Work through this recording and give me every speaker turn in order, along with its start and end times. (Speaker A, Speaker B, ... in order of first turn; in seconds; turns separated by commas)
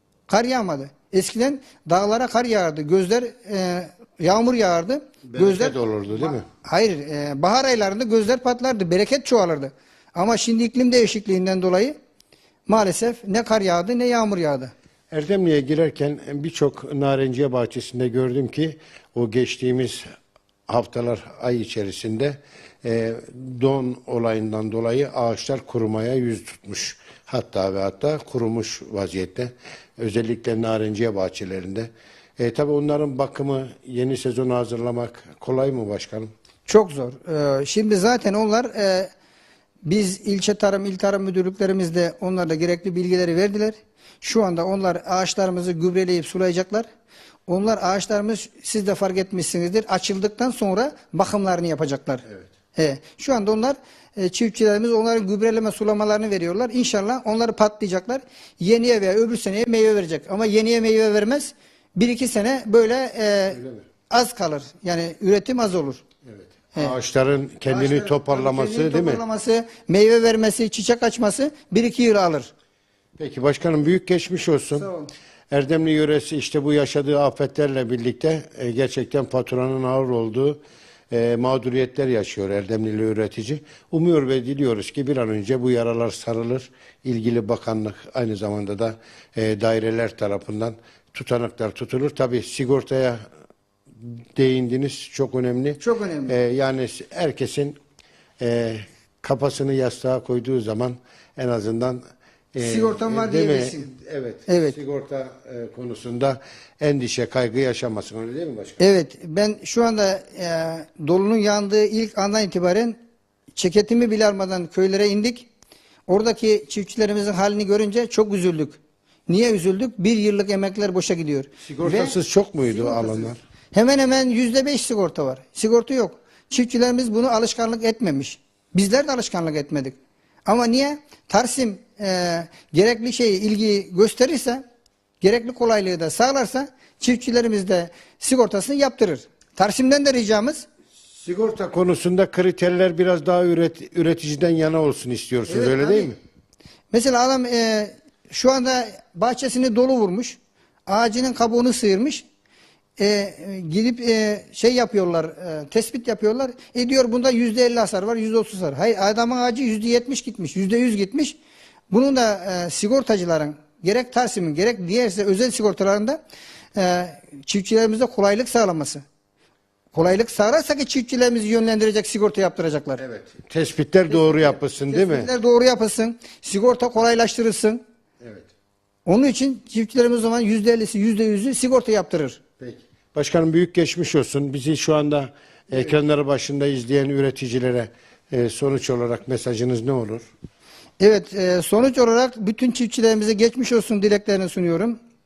Speaker A: 0.3-11.9, Speaker B: 5.2-6.4, Speaker A: 12.7-14.7, Speaker B: 15.1-20.0, Speaker B: 20.7-36.3, Speaker A: 36.7-39.1, Speaker A: 39.8-46.9, Speaker A: 47.5-52.2, Speaker A: 52.7-66.0, Speaker B: 66.2-69.2, Speaker A: 67.7-72.5, Speaker B: 73.2-74.9, Speaker A: 74.8-75.1, Speaker B: 75.5-80.6, Speaker B: 81.1-93.2, Speaker B: 94.0-97.8, Speaker A: 95.8-96.3, Speaker B: 98.4-102.0, Speaker B: 102.5-108.8, Speaker A: 102.6-103.9, Speaker A: 104.5-104.8, Speaker A: 108.8-113.0, Speaker A: 113.5-115.5, Speaker A: 116.1-134.6, Speaker B: 121.6-123.4, Speaker A: 135.2-140.7, Speaker B: 141.1-146.2, Speaker A: 145.5-146.1, Speaker A: 146.9-152.2, Speaker A: 153.0-161.4, Speaker A: 161.9-166.2, Speaker A: 166.7-169.0, Speaker A: 169.9-173.0, Speaker B: 173.0-175.3, Speaker A: 174.1-177.8, Speaker B: 178.2-178.5, Speaker A: 179.1-182.4, Speaker B: 182.6-190.3, Speaker A: 191.0-195.0